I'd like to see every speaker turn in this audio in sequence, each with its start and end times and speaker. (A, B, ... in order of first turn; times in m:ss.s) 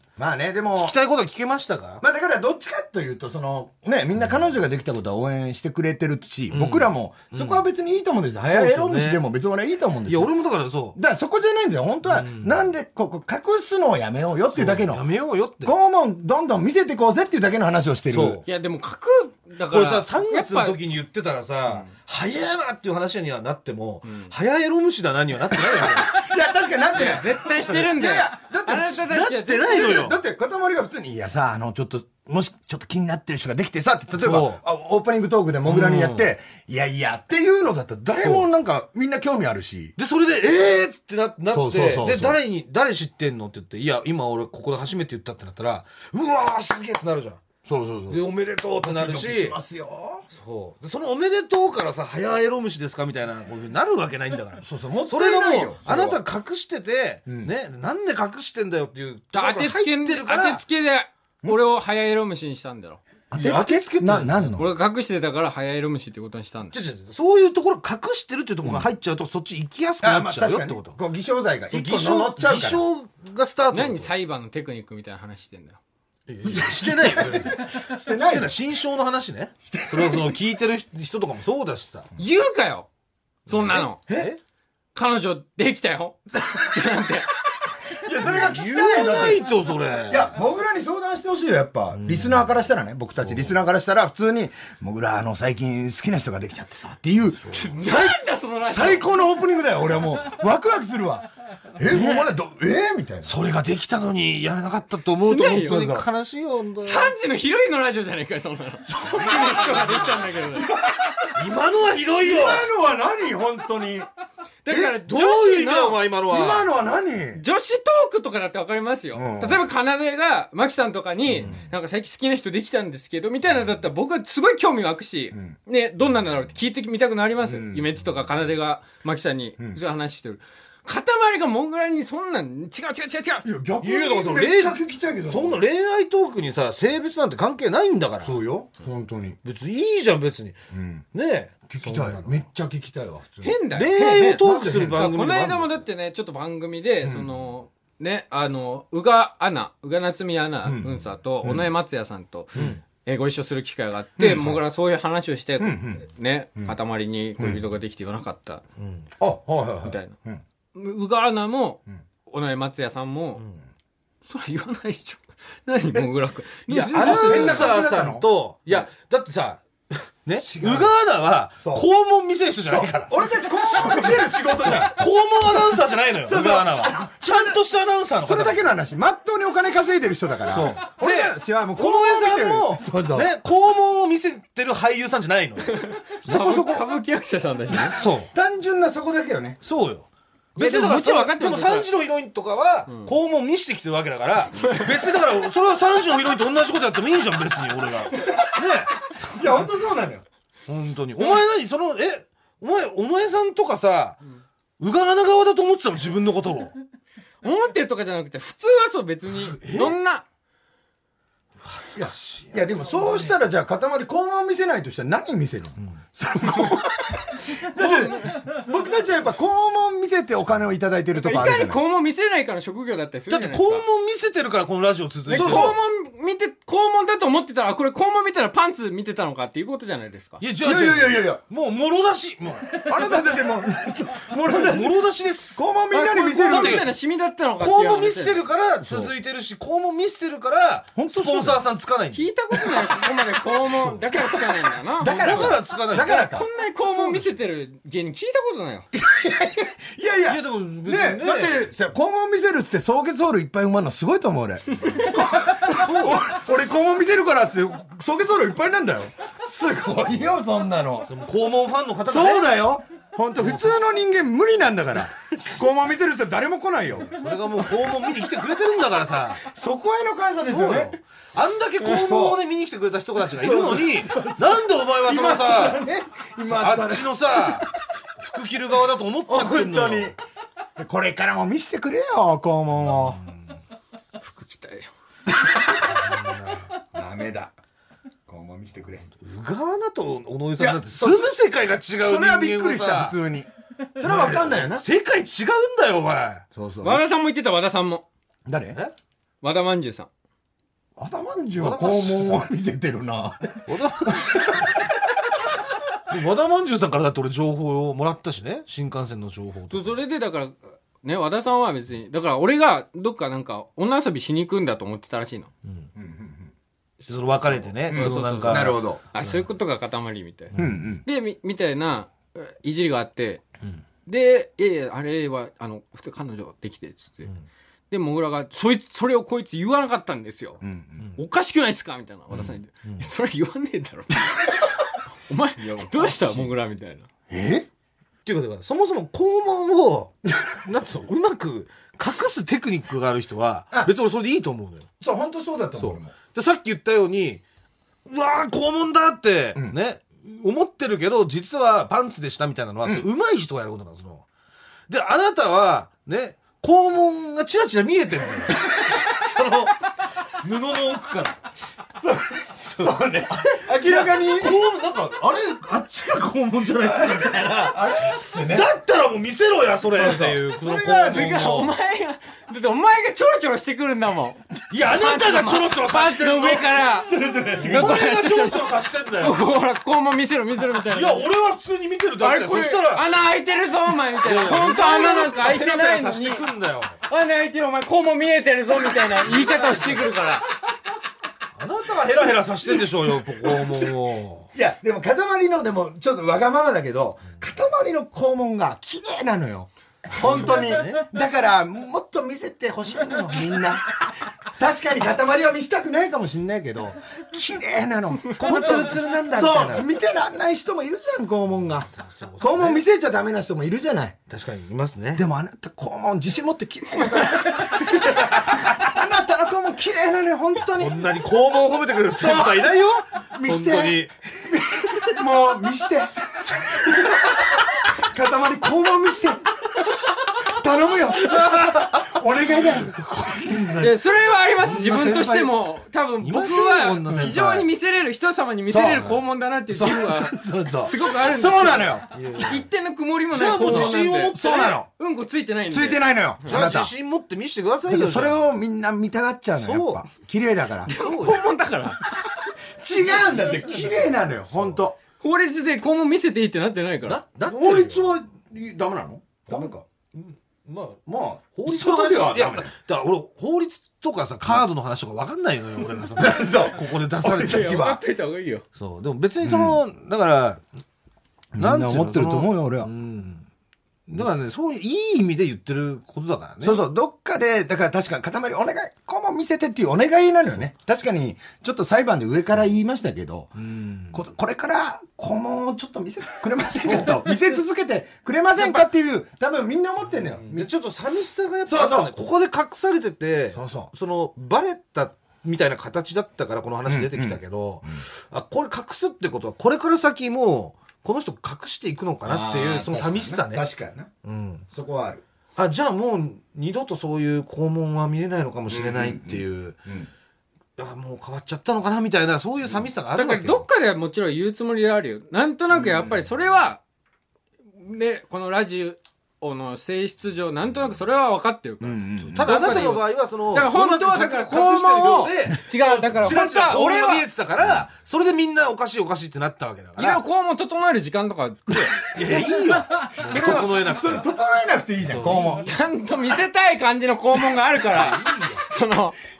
0:00.2-0:01.0 A
0:00.8-0:02.0 B
0:02.0-0:10.3 A
0:06.5-0:07.6 B
0:08.4-0:09.2 B
0:10.1-0:11.0 B
0:10.9-0:15.0 A
0:12.1-0:12.6 B
0:14.5-0:15.7 B
0:15.6-0:18.4 A
0:18.1-0:18.4 B
0:18.4-0:20.8 C
0:19.7-0:26.2 B
0:25.7-0:39.9 A
0:27.0-0:29.8 C
0:28.9-0:30.2 B
0:34.1-0:34.6 B
0:35.6-0:36.3 B
0:38.2-0:38.5 B
0:40.0-0:47.4 B
0:41.5-0:42.4 A
0:47.6-0:48.2 A
0:48.1-0:49.6 B
0:48.8-0:50.2 A
0:50.3-1:00.6 B
0:54.6-0:56.2 A
0:57.3-0:57.5 A
0:59.3-1:03.0 C
1:03.3-1:04.7 A
1:03.3-1:04.6 B
1:04.6-1:06.8 C
1:06.7-1:11.0 B
1:10.0-1:12.8 A
1:11.7-1:14.1 B
1:13.7-1:15.8 C
1:16.3-1:22.1 B
1:16.4-1:18.5 A
1:19.6-1:20.3 A
1:22.2-1:22.9 C
1:23.5-1:24.0 C
1:23.6-1:24.4 B
1:24.9-1:27.3 C
1:26.4-1:27.1 A
1:27.9-1:29.4 A
1:28.2-1:30.3 B
1:30.1-1:43.3 A
1:31.9-1:32.5 B
1:33.2-1:33.6 B
1:37.4-1:37.7 B
1:37.5-1:39.1 C
1:41.8-1:42.3 B
1:43.2-1:47.1 B
1:45.2-1:45.8 C
1:45.6-1:46.0 A
1:46.8-1:50.8 C
1:48.9-1:51.4 A
1:49.4-1:49.9 B
1:51.4-1:52.7 B
1:52.2-1:54.1 A
1:54.6-1:56.0 C
1:54.7-1:56.7 B
1:56.3-1:57.4 A
1:57.3-2:13.5 C
1:59.1-1:59.6 A
2:07.4-2:07.9 A
2:13.4-2:15.6 A
2:13.8-2:18.4 B
2:18.2-2:19.4 A
2:19.4-2:20.6 B
2:20.7-2:21.0 A
2:21.1-2:22.4 B
2:21.7-2:23.6 A
2:23.4-2:38.6 C
2:23.7-2:25.8 B
2:24.4-2:25.1 A
2:27.0-2:27.3 A
2:30.6-2:31.7 A
2:34.2-2:34.6 A
2:35.6-2:36.0 A
2:38.8-2:39.1 B
2:39.2-2:40.4 A
2:39.8-2:40.2 C
2:40.7-2:43.4 C
2:44.2-2:47.7 C
2:46.7-2:58.7 B
2:46.9-2:48.8 A
2:50.4-2:50.9 A
2:51.6-2:51.8 A
2:52.6-2:57.6 A
2:58.2-3:03.3 A
3:00.5-3:05.7 B
3:05.6-3:08.0 C
3:06.2-3:06.8 A
3:07.7-3:09.6 A
3:07.9-3:08.3 B
3:09.6-3:19.4 B
3:10.6-3:11.9 C
3:14.6-3:14.9 C
3:18.2-3:18.6 A
3:19.1-3:20.2 A
3:20.7-3:24.2 B
3:24.8-3:26.7 B
3:27.4-3:30.2 C
3:29.3-3:30.0 B
3:31.6-3:33.3 B
3:32.0-3:41.8 A
3:37.8-3:38.4 C
3:41.2-3:43.8 C
3:43.3-3:45.8 B
3:45.3-3:50.4 C
3:45.3-3:45.8 A
3:50.4-3:53.1 B
3:50.6-3:51.4 A
3:52.8-3:55.0 A
3:54.5-3:55.6 B
3:55.5-3:56.8 A
3:55.9-3:58.4 C
3:56.4-3:56.9 B
3:57.6-4:02.2 B
3:58.8-3:59.1 A
4:01.0-4:01.6 A
4:02.1-4:08.9 C
4:02.6-4:02.8 A
4:03.6-4:06.5 A
4:05.0-4:06.2 B
4:08.9-4:21.1 A
4:10.2-4:11.7 B
4:15.6-4:16.2 B
4:21.1-4:22.7 B
4:22.1-4:27.1 A
4:23.4-4:23.7 B
4:27.0-4:29.4 B
4:29.4-4:30.9 A
4:30.5-4:35.9 B
4:31.8-4:32.4 A
4:33.3-4:37.6 A
4:36.4-4:40.1 B
4:39.3-4:40.2 A
4:40.8-4:43.2 A
4:42.9-4:43.3 B
4:44.2-4:44.9 C
4:45.8-4:46.7 B
4:46.9-4:47.5 A
4:48.3-4:49.1 A
4:49.2-4:53.2 B
4:50.6-4:51.4 A
4:52.0-4:54.8 A
4:54.0-4:56.4 B
4:56.5-4:57.0 A
4:56.8-4:58.0 C
4:58.4-4:58.8 A
4:59.4-5:00.1 C
5:01.0-5:04.9 A
5:01.6-5:02.4 B
5:03.7-5:04.6 B
5:06.1-5:10.0 B
5:09.7-5:15.5 C
5:16.0-5:16.5 A
5:17.0-5:19.3 B
5:17.6-5:23.4 C
5:17.9-5:19.0 A
5:20.5-5:20.8 B
5:20.5-5:21.0 A
5:24.0-5:27.3 C
5:27.9-5:30.6 C
5:30.6-5:31.0 A
5:31.2-5:34.2 C
5:35.3-5:37.0 C
5:35.6-5:36.5 A
5:37.3-5:37.7 A
5:38.2-5:40.1 B
5:40.6-5:44.9 B
5:45.0-5:46.1 A
5:45.8-5:47.4 B
5:48.1-5:54.2 B
5:54.9-5:59.8 B
6:00.4-6:01.4 B
6:02.0-6:04.6 A
6:02.6-6:11.7 B
6:06.8-6:08.7 A
6:09.9-6:11.4 A
6:11.1-6:21.3 C
6:14.7-6:16.8 B
6:16.9-6:18.1 A
6:17.6-6:19.4 B
6:20.9-6:23.0 B
6:22.2-6:26.5 C
6:24.2-6:27.0 B
6:27.0-6:30.4 C
6:29.2-6:30.1 B
6:31.6-6:34.5 B
6:32.6-6:34.0 A
6:34.5-6:51.9 A
6:40.1-6:41.1 B
6:42.8-6:43.4 B
6:48.4-6:49.9 B
6:51.9-6:52.8 B
6:52.4-6:54.2 A
6:54.3-6:55.2 B
6:55.1-7:01.0 A
6:57.8-6:58.7 B
7:00.7-7:04.1 B
7:02.2-7:09.4 A
7:10.4-7:13.9 A
7:11.2-7:12.9 B
7:13.4-7:13.9 B
7:13.8-7:26.1 C
7:14.6-7:15.6 B
7:16.2-7:17.7 B
7:17.1-7:17.4 A
7:18.7-7:22.1 A
7:18.9-7:19.2 B
7:22.1-7:22.7 B
7:23.3-7:24.8 B
7:23.6-7:24.9 A
7:25.7-7:26.9 A
7:26.4-7:28.4 B
7:27.9-7:30.9 A
7:29.6-7:30.1 B
7:30.8-7:32.1 C
7:30.9-7:31.4 B
7:32.8-7:35.0 A
7:33.2-7:34.1 B
7:35.2-7:37.2 C
7:37.0-7:38.2 B
7:37.5-7:39.8 A
7:39.5-7:41.0 B
7:41.1-7:42.7 A
7:41.5-7:47.8 B
7:46.1-7:48.0 A
7:47.4-7:48.6 C
7:48.8-7:50.6 B
7:49.4-7:49.8 A
7:51.5-7:52.9 A
7:51.5-7:53.4 B
7:54.1-7:56.8 B
7:56.6-8:03.5 A
8:03.6-8:04.2 B
8:04.1-8:10.7 A
8:06.9-8:07.2 B
8:08.6-8:08.9 B
8:10.1-8:23.6 B
8:11.7-8:12.1 A
8:13.5-8:13.9 A
8:16.9-8:18.0 A
8:22.2-8:24.1 A
8:24.2-8:24.6 B
8:24.7-8:25.2 A
8:25.6-8:29.8 B
8:28.7-8:30.1 A
8:30.8-8:33.6 B
8:33.2-8:36.8 C
8:35.7-8:36.1 A
8:37.8-8:47.3 C
8:41.8-8:42.6 A
8:42.3-8:50.2 B
8:47.6-8:47.9 A
8:50.0-8:52.0 C
8:52.1-8:54.3 B
8:52.2-8:55.7 A
8:55.0-8:55.6 B
8:55.5-8:59.2 C
8:57.8-8:58.6 B